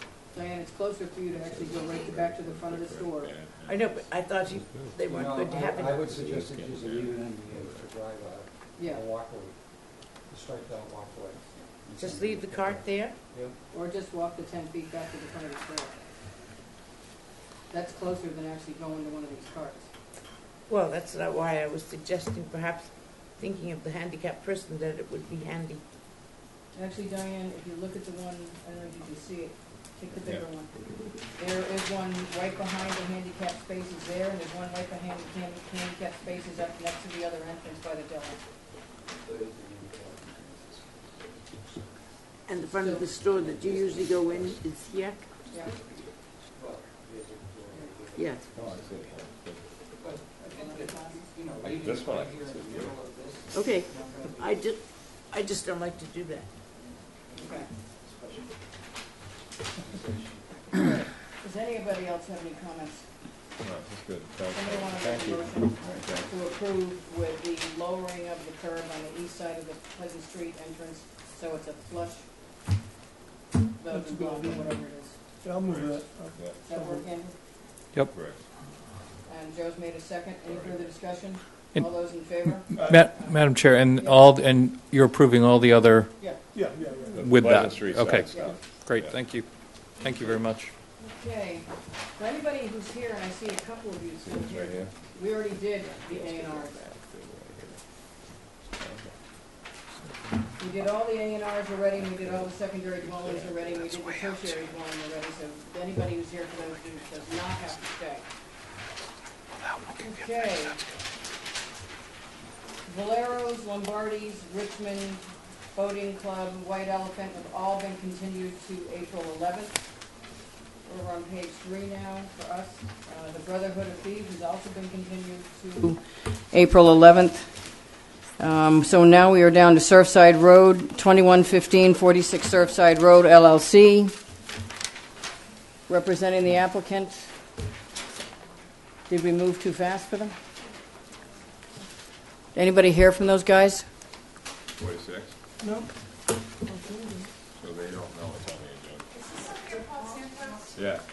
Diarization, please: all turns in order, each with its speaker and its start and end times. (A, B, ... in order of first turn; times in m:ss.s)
0:00.3-0:03.3 A
0:01.3-0:05.0 B
0:03.7-0:06.3 C
0:05.0-0:09.5 D
0:06.0-0:07.9 B
0:08.8-0:09.0 A
0:10.3-0:13.6 D
0:12.0-0:13.2 C
0:13.7-0:16.0 A
0:17.7-0:19.9 A
0:20.7-0:25.8 C
0:26.7-0:30.7 A
0:31.3-0:38.4 A
0:39.2-0:41.0 D
0:42.5-0:45.2 C
0:42.6-0:43.1 A
0:43.4-0:44.6 D
0:46.5-0:49.2 D
0:48.2-0:48.4 C
0:48.5-0:49.6 B
0:50.0-0:54.6 D
0:50.4-0:51.3 A
0:51.6-0:53.0 B
0:53.5-0:56.5 C
0:56.8-0:58.5 D
0:57.3-0:57.7 A
0:59.8-1:00.7 D
1:00.8-1:03.0 A
1:03.6-1:06.3 B
1:04.5-1:12.2 A
1:13.8-1:15.2 A
1:13.9-1:14.8 E
1:15.4-1:17.1 E
1:15.6-1:16.6 B
1:16.6-1:17.3 A
1:18.1-1:18.4 B
1:19.2-1:24.3 A
1:20.4-1:20.9 B
1:22.4-1:26.1 F
1:22.7-1:23.1 E
1:26.2-1:26.4 A
1:26.5-1:27.3 E
1:27.1-1:29.1 B
1:27.1-1:30.7 F
1:28.3-1:28.6 A
1:31.0-1:36.8 A
1:34.2-1:34.9 B
1:35.8-1:37.8 B
1:38.8-1:39.1 B
1:40.6-1:48.2 A
1:50.0-1:50.8 A
1:52.8-1:59.8 A
2:00.8-2:07.5 A
2:08.4-2:14.1 A
2:15.9-2:17.3 A
2:19.1-2:20.3 A
2:22.5-2:23.8 A
2:24.8-2:25.3 B
2:26.7-2:27.2 A
2:26.8-2:27.1 E
2:27.6-2:29.0 B
2:30.7-2:31.0 B